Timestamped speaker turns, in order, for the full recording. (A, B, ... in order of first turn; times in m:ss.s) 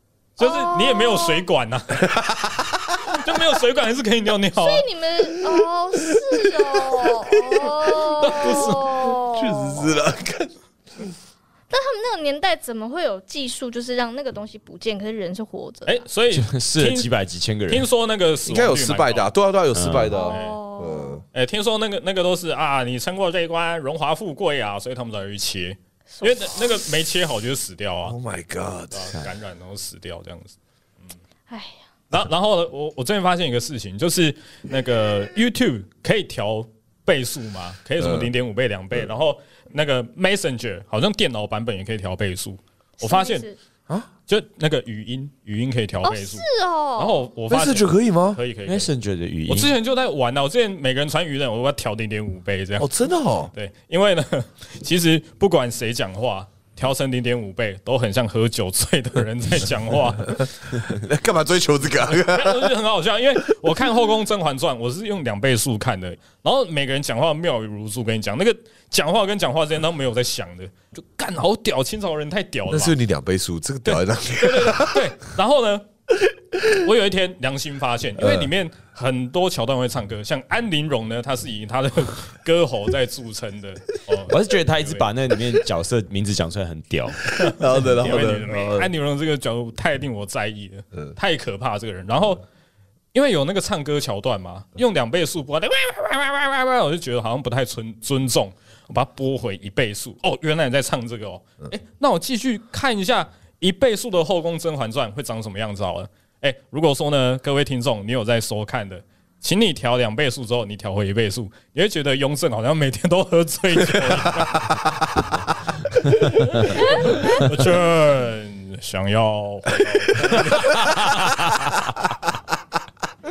0:00.4-0:02.0 A
0:00.4-0:01.4 B
0:02.0-0:03.2 C
0:03.1-0:04.9 A
0:04.6-0:09.8 B
0:05.6-0:10.5 C
0:08.2-0:09.1 A
0:11.7-0:16.0 B
0:15.9-0:17.1 A
0:16.3-0:17.9 D
0:17.7-0:19.3 A
0:18.4-0:21.2 C
0:19.7-0:20.1 D
0:20.1-0:21.2 B
0:20.2-0:20.6 A
0:21.3-0:28.2 A
0:26.1-0:26.6 B
0:28.0-0:29.2 C
0:28.9-0:30.5 A
0:31.5-0:31.8 B
0:32.1-0:43.4 A
0:38.0-0:38.3 C
0:43.0-0:43.6 B
0:44.3-0:46.4 A
0:46.0-0:47.2 B
0:47.0-0:48.9 A
0:47.5-0:48.4 C
0:48.6-0:49.8 D
0:49.5-0:52.9 A
0:52.8-0:53.5 C
0:53.5-1:00.5 A
1:00.7-1:02.7 C
1:02.1-1:13.0 A
1:12.7-1:15.1 C
1:13.8-1:15.8 A
1:16.7-1:25.0 A
1:18.2-1:18.5 C
1:24.3-1:27.2 D
1:27.3-1:28.9 C
1:27.5-1:32.4 A
1:33.1-1:54.8 A
1:54.4-1:54.9 C
1:56.3-2:01.6 A
1:56.9-1:57.4 B
2:00.3-2:00.8 C